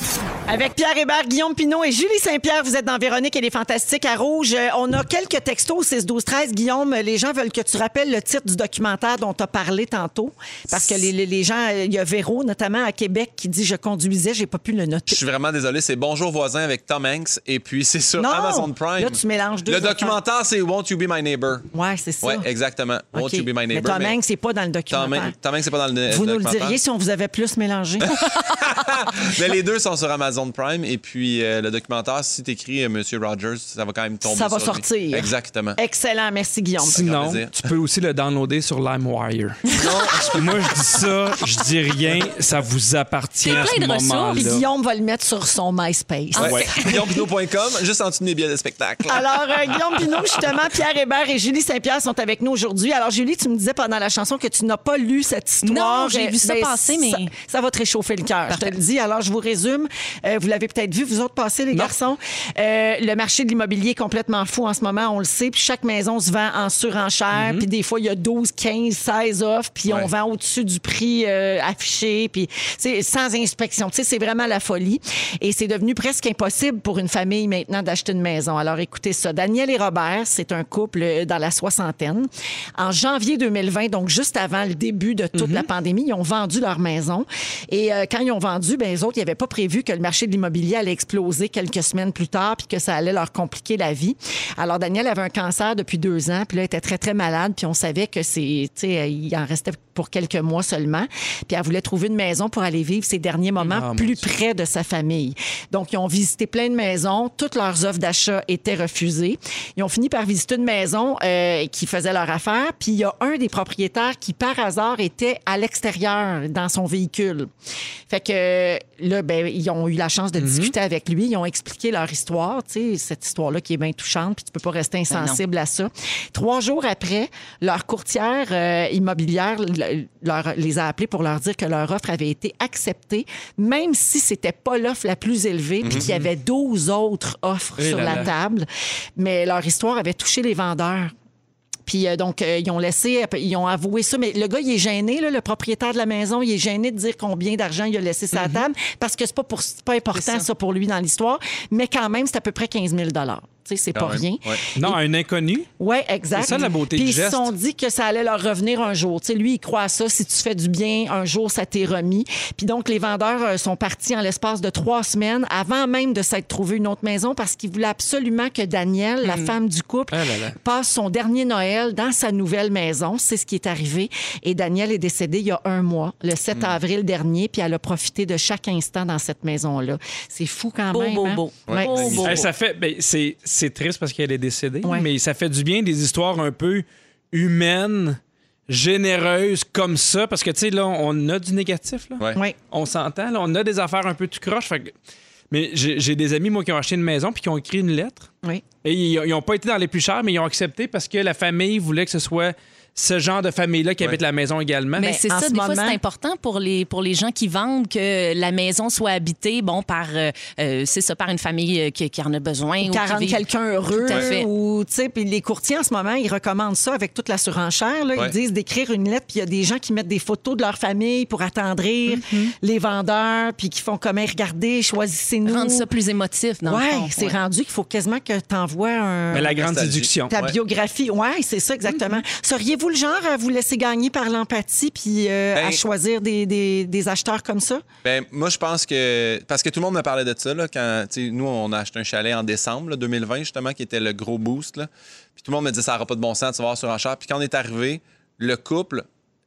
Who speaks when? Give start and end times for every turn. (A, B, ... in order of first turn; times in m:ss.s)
0:00.5-0:15.2 A
0:15.1-0:21.7 B
0:18.2-0:20.2 A
0:21.7-0:22.4 A
0:22.2-0:24.2 B
0:23.1-0:25.3 A
0:24.9-0:26.8 B
0:26.1-0:28.1 A
0:28.1-0:35.8 B
0:34.2-0:37.0 A
0:36.8-0:37.7 B
0:36.8-0:39.6 C
0:39.7-0:40.6 B
0:40.3-0:44.7 C
0:43.4-0:44.5 D
0:44.4-0:47.0 A
0:46.3-0:47.0 D
0:46.4-0:49.8 B
0:46.4-0:46.7 C
0:49.1-1:57.5 A
0:55.6-0:57.3 D
0:58.5-0:58.7 D
1:07.3-1:07.6 C
1:25.4-1:25.7 C
1:43.6-1:44.2 C
1:58.1-2:21.1 A
2:00.4-2:00.7 C
2:05.1-2:05.4 D
2:15.8-2:16.1 B
2:15.9-2:16.2 C
2:17.8-2:18.3 C
2:21.9-2:35.0 A
2:28.3-2:28.7 C
2:30.1-2:30.5 D
2:33.9-2:34.6 B
2:34.8-2:35.7 C
2:35.8-3:02.2 A
2:36.4-2:37.5 C
2:49.2-2:49.5 D
2:50.1-2:50.6 C
3:00.9-3:02.4 D
3:01.7-3:02.5 B
3:02.2-3:08.2 C
3:08.7-3:14.9 C
3:15.5-3:18.3 C
3:18.8-3:25.1 C
3:25.0-3:34.5 D
3:25.0-3:26.0 A
3:32.8-3:45.9 A
3:42.1-3:42.5 C
3:45.4-3:47.4 D
3:46.6-3:49.6 A
3:49.3-3:50.3 C
3:49.5-3:50.6 B
3:50.3-3:57.8 A
3:51.9-3:52.2 C
3:55.5-3:55.8 B
3:58.0-4:09.0 B